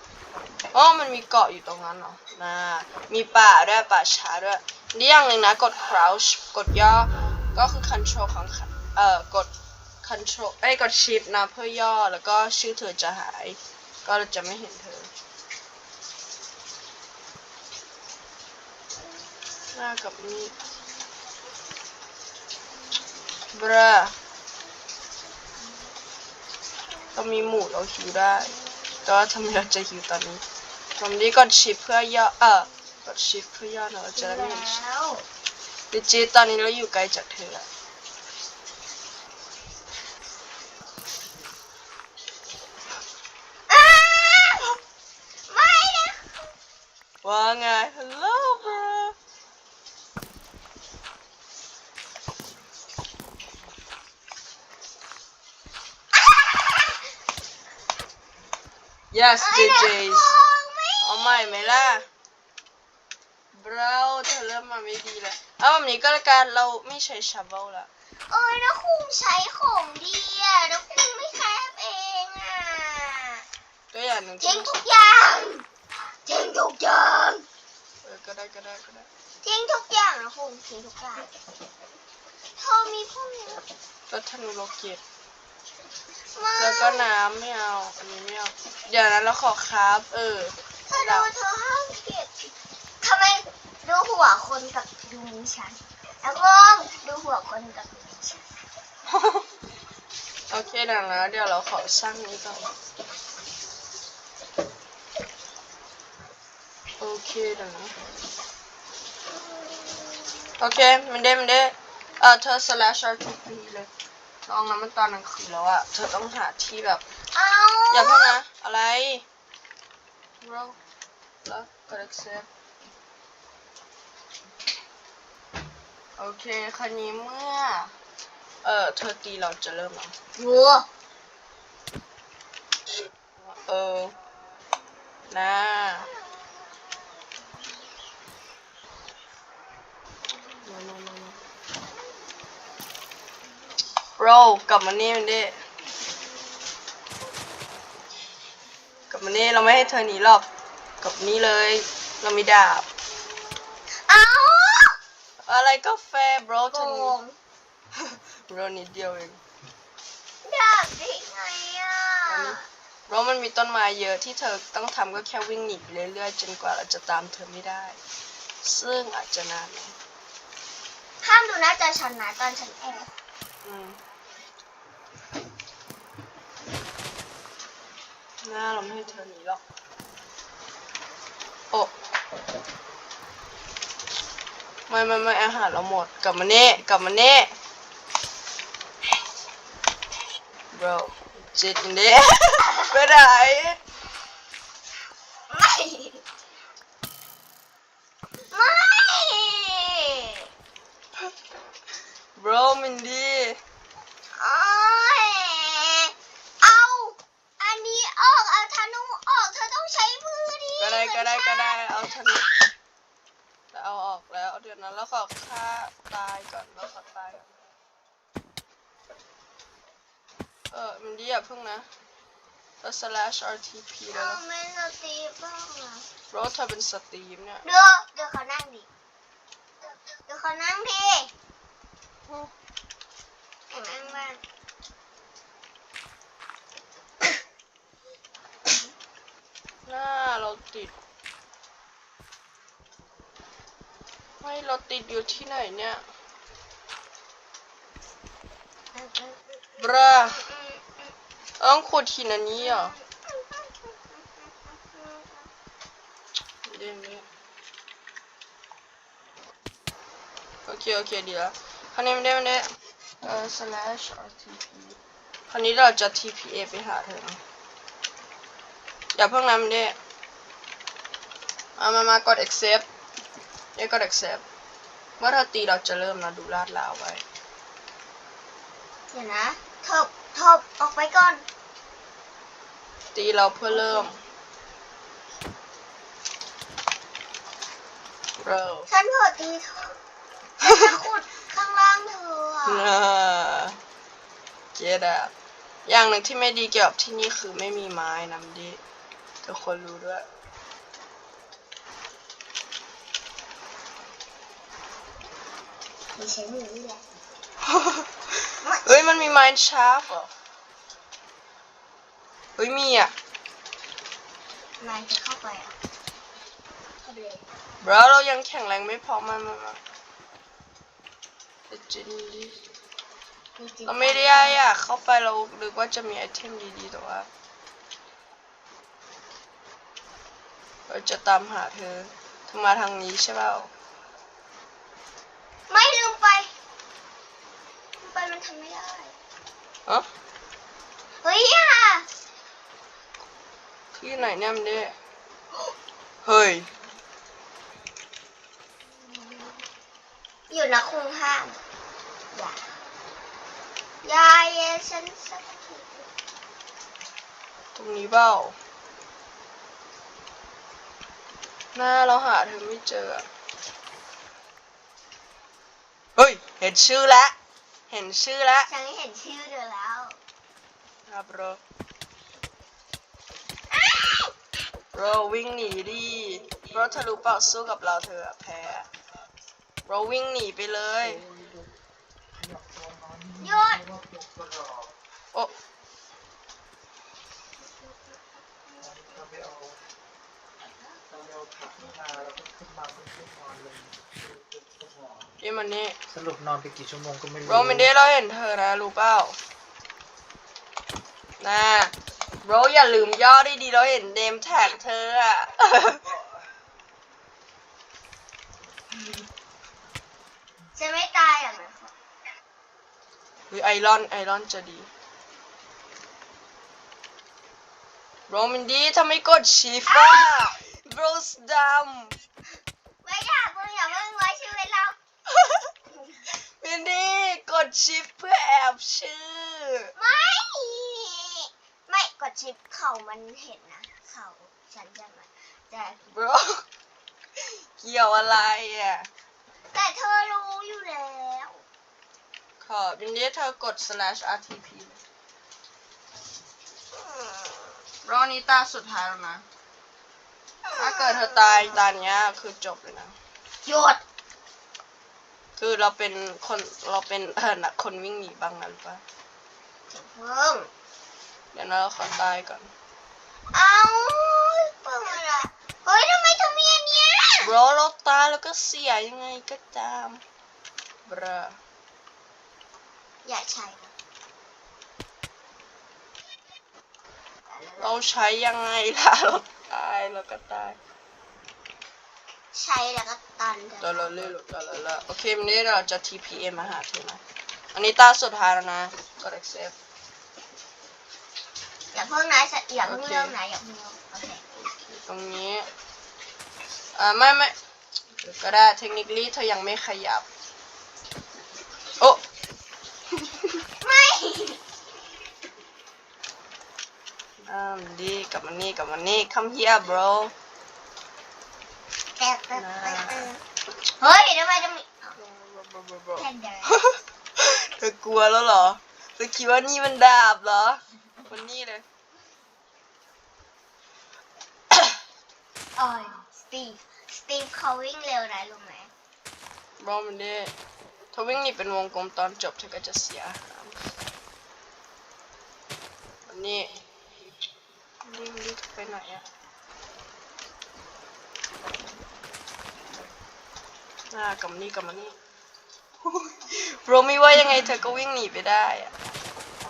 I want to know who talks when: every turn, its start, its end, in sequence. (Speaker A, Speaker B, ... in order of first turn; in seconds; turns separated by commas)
Speaker A: 0.7-9.5, Speaker A: 10.0-15.1, Speaker B: 19.3-20.9, Speaker A: 19.7-20.6, Speaker A: 23.5-24.1, Speaker A: 27.1-28.5, Speaker B: 28.3-29.1, Speaker A: 29.1-30.4, Speaker A: 31.0-34.8, Speaker B: 34.1-35.3, Speaker A: 35.9-37.7, Speaker B: 43.7-44.8, Speaker B: 45.5-46.5, Speaker A: 47.2-49.1, Speaker B: 56.2-57.0, Speaker A: 59.1-60.3, Speaker B: 59.4-62.1, Speaker A: 61.0-62.0, Speaker A: 63.5-67.9, Speaker B: 68.3-73.4, Speaker A: 73.9-74.7, Speaker B: 74.4-75.7, Speaker B: 76.3-77.5, Speaker A: 78.0-79.1, Speaker B: 79.4-81.3, Speaker B: 82.6-83.7, Speaker A: 84.1-85.0, Speaker B: 86.3-87.1, Speaker A: 86.6-91.3, Speaker B: 90.9-92.3, Speaker B: 93.0-98.4, Speaker A: 99.1-99.5, Speaker A: 100.5-102.7, Speaker A: 107.0-107.9, Speaker B: 109.3-110.5, Speaker A: 110.6-113.9, Speaker A: 114.5-117.0, Speaker B: 117.3-118.4, Speaker A: 117.9-119.2, Speaker A: 120.4-120.8, Speaker A: 121.5-122.5, Speaker A: 126.2-128.0, Speaker A: 128.6-130.2, Speaker B: 130.4-130.9, Speaker A: 133.4-134.2, Speaker A: 135.3-136.1, Speaker B: 136.0-137.7, Speaker A: 140.7-141.4, Speaker A: 144.2-145.6, Speaker A: 149.1-150.5, Speaker A: 151.0-152.9, Speaker B: 153.5-155.0, Speaker A: 155.4-157.2, Speaker B: 156.7-157.4, Speaker A: 158.0-159.4, Speaker B: 160.4-162.7, Speaker A: 162.3-168.0, Speaker A: 168.6-169.9, Speaker B: 171.2-173.1, Speaker A: 173.6-174.0, Speaker A: 178.4-179.6, Speaker A: 184.9-187.5, Speaker A: 190.7-193.8, Speaker B: 195.5-196.2, Speaker B: 198.5-200.5, Speaker A: 202.4-203.6, Speaker B: 204.3-212.0, Speaker A: 210.8-212.5, Speaker A: 213.7-217.5, Speaker A: 220.7-221.9, Speaker A: 222.8-224.4, Speaker B: 224.1-226.1, Speaker A: 226.3-227.7, Speaker B: 227.6-228.9, Speaker B: 229.8-231.3, Speaker B: 233.7-234.4, Speaker A: 239.9-240.9, Speaker A: 244.4-246.1, Speaker B: 248.9-251.1, Speaker A: 249.8-250.4, Speaker A: 251.6-252.9, Speaker B: 252.6-255.5, Speaker A: 256.6-257.3, Speaker A: 260.7-262.7, Speaker A: 263.2-265.0, Speaker A: 265.5-267.4, Speaker A: 269.2-270.0, Speaker A: 271.8-272.9, Speaker A: 273.8-274.4, Speaker A: 275.2-277.2, Speaker B: 279.1-281.4, Speaker A: 283.1-284.2, Speaker B: 283.7-284.1, Speaker A: 288.4-288.9, Speaker B: 288.9-290.0, Speaker B: 290.6-292.9, Speaker A: 292.7-293.8, Speaker A: 294.8-295.3, Speaker A: 295.9-298.8, Speaker A: 299.4-300.3, Speaker B: 306.2-307.0, Speaker A: 307.6-308.1, Speaker B: 308.6-309.3, Speaker A: 308.9-310.3, Speaker A: 312.6-313.1, Speaker B: 314.8-315.8, Speaker B: 317.0-317.5, Speaker A: 317.8-319.8, Speaker A: 321.7-322.6, Speaker B: 323.6-324.6, Speaker A: 323.9-327.3, Speaker A: 330.9-333.7, Speaker B: 335.7-336.5, Speaker B: 338.0-339.2, Speaker B: 341.2-342.1, Speaker A: 344.0-344.9, Speaker A: 346.2-346.7, Speaker B: 348.9-349.6, Speaker B: 350.5-351.6, Speaker B: 352.3-352.8, Speaker B: 354.0-356.1, Speaker A: 357.8-358.6, Speaker A: 361.8-363.3, Speaker A: 366.2-367.3, Speaker A: 367.9-368.7, Speaker B: 368.7-370.2, Speaker A: 371.1-371.6, Speaker B: 373.7-374.3, Speaker A: 374.9-378.9, Speaker A: 379.9-381.3, Speaker C: 382.5-383.3, Speaker B: 383.4-383.9, Speaker C: 384.0-384.8, Speaker B: 387.6-389.3, Speaker C: 389.4-389.7, Speaker C: 391.3-391.6, Speaker B: 391.8-392.4, Speaker C: 392.6-395.1, Speaker A: 395.4-396.0, Speaker C: 396.1-397.5, Speaker A: 397.4-399.4, Speaker A: 401.4-406.0, Speaker B: 410.7-411.9, Speaker A: 413.5-414.9, Speaker A: 418.3-422.2, Speaker B: 419.9-420.5, Speaker B: 423.0-425.0, Speaker A: 425.3-425.7, Speaker B: 425.9-426.3, Speaker A: 426.3-429.9, Speaker B: 430.0-436.1, Speaker A: 436.1-436.6, Speaker A: 437.4-439.1, Speaker B: 439.7-441.6, Speaker A: 442.6-445.0, Speaker B: 446.9-447.8, Speaker A: 448.1-449.4, Speaker B: 450.6-451.8, Speaker A: 450.7-453.2, Speaker B: 453.6-454.0, Speaker A: 455.6-459.0, Speaker B: 459.9-460.7, Speaker A: 461.5-462.7, Speaker B: 463.5-467.5, Speaker A: 467.4-470.2, Speaker A: 471.1-471.6, Speaker B: 473.2-473.9, Speaker B: 477.5-478.0, Speaker A: 477.8-480.8, Speaker B: 482.5-484.2, Speaker A: 483.8-487.2, Speaker A: 487.7-489.7, Speaker B: 491.9-494.4, Speaker A: 492.9-493.3, Speaker A: 494.5-495.7, Speaker A: 497.0-497.6, Speaker A: 498.2-500.3, Speaker A: 503.2-503.5, Speaker B: 503.8-504.6, Speaker A: 507.4-510.3, Speaker B: 512.2-515.2, Speaker A: 512.5-513.3, Speaker A: 515.1-521.9, Speaker B: 516.2-516.9, Speaker B: 525.8-528.9, Speaker A: 529.8-530.5, Speaker A: 531.1-533.9, Speaker A: 536.3-536.8, Speaker A: 538.0-539.3, Speaker A: 544.1-545.2, Speaker A: 546.0-548.9